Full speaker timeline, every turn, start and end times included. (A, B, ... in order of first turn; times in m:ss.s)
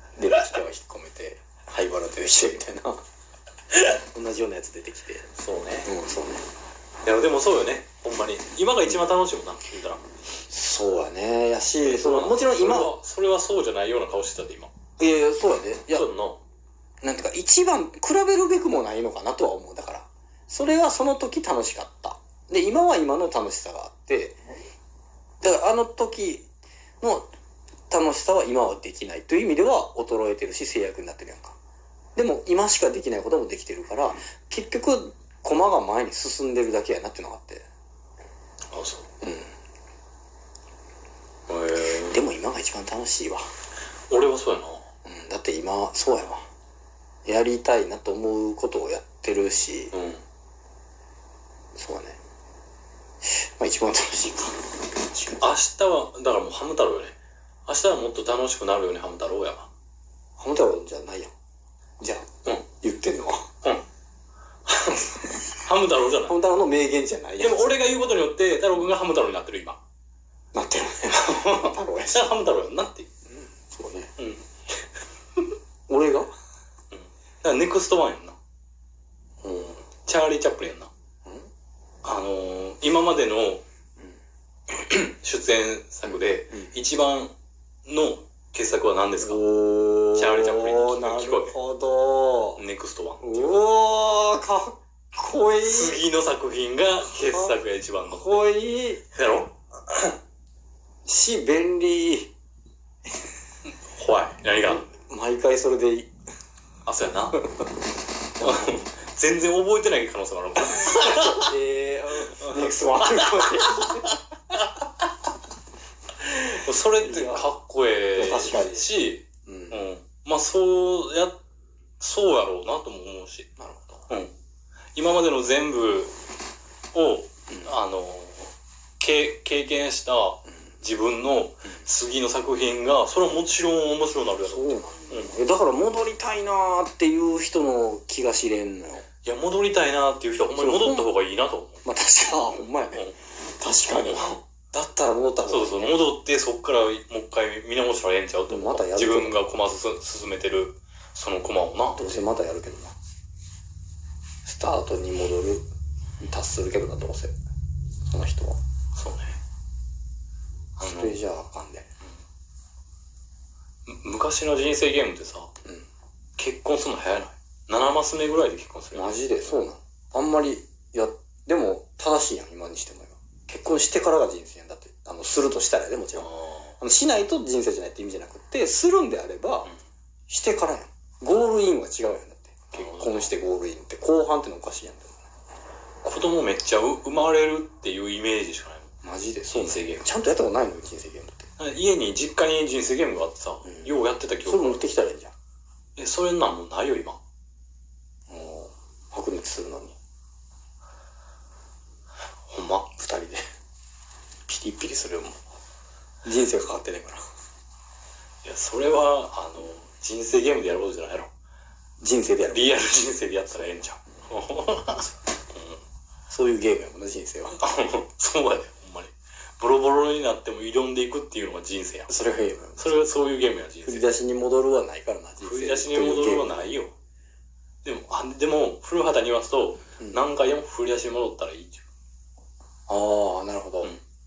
0:00.2-0:03.0 A
0:03.9-0:05.3 A
0:05.3-0:05.9 B
0:05.8-0:06.5 A
0:07.0-0:10.0 B
0:10.5-0:12.9 A
0:11.8-0:14.7 B
0:15.0-0:16.1 A
0:15.9-0:16.4 B
0:17.0-0:24.4 A
0:25.4-0:26.5 A
0:27.0-0:27.3 A
0:27.9-0:31.6 A
0:32.2-0:37.6 A
0:38.7-0:39.0 B
0:39.2-0:39.5 A
0:41.5-0:42.2 B
0:42.0-0:43.5 A
0:44.1-0:44.8 B
0:45.0-0:46.4 A
0:47.2-0:49.9 A
0:49.9-0:50.2 B
0:51.8-0:52.2 A
0:53.2-0:55.5 A
0:55.4-0:59.7 B
1:00.4-1:01.3 A
1:02.0-1:03.5 A
1:04.8-1:06.4 B
1:06.2-1:07.8 A
1:07.4-1:09.8 B
1:10.5-1:12.3 A
1:11.1-1:13.1 B
1:13.3-1:14.1 A
1:14.2-1:14.4 B
1:15.9-1:16.3 A
1:16.9-1:18.4 B
1:19.4-1:19.8 A
1:20.0-1:20.9 B
1:22.0-1:23.6 B
1:24.7-1:27.3 B
1:26.0-1:26.7 A
1:27.8-1:29.4 B
1:29.2-1:32.6 A
1:30.1-1:31.5 B
1:32.6-1:33.6 B
1:33.2-1:36.0 A
1:35.6-1:38.4 B
1:37.2-1:39.0 A
1:39.1-1:40.1 B
1:41.0-1:42.3 A
1:43.9-1:44.8 B
1:44.6-1:46.1 A
1:46.8-1:47.4 B
1:47.4-1:47.7 A
1:48.4-1:51.5 B
1:48.4-1:48.7 A
1:50.6-1:54.1 A
1:52.2-1:54.9 B
1:56.2-2:01.4 B
1:57.0-1:57.5 A
1:58.1-1:58.9 A
1:59.4-1:59.8 A
2:02.0-2:03.5 B
2:03.6-2:04.1 A
2:04.9-2:06.1 B
2:06.9-2:15.3 B
2:07.5-2:07.8 A
2:14.4-2:19.0 A
2:19.2-2:21.8 B
2:20.5-2:21.1 A
2:21.8-2:26.0 A
2:23.9-2:24.4 B
2:25.4-2:32.2 B
2:28.5-2:29.4 A
2:32.0-2:32.9 A
2:34.4-2:35.6 A
2:36.2-2:37.3 A
2:38.0-2:38.6 A
2:38.9-2:39.4 B
2:40.8-2:41.2 B
2:40.8-2:41.9 A
2:43.8-2:45.5 B
2:46.4-2:49.6 B
2:48.9-2:56.3 A
2:56.2-2:56.8 B
2:56.8-2:59.7 A
3:00.3-3:05.2 A
3:02.7-3:03.3 B
3:06.0-3:08.9 B
3:09.0-3:11.5 A
3:09.5-3:10.1 B
3:11.6-3:14.8 B
3:13.6-3:15.3 A
3:16.0-3:17.2 B
3:18.3-3:20.0 A
3:22.5-3:22.9 B
3:22.9-3:23.4 A
3:24.5-3:25.4 B
3:26.2-3:27.2 A
3:28.4-3:31.3 B
3:32.0-3:32.8 A
3:32.4-3:35.8 B
3:36.3-3:37.6 A
3:37.6-3:42.1 B
3:42.1-3:43.0 A
3:42.8-3:44.0 B
3:43.8-3:46.7 A
3:45.4-3:46.9 B
3:47.8-3:51.9 B
3:52.9-3:53.9 A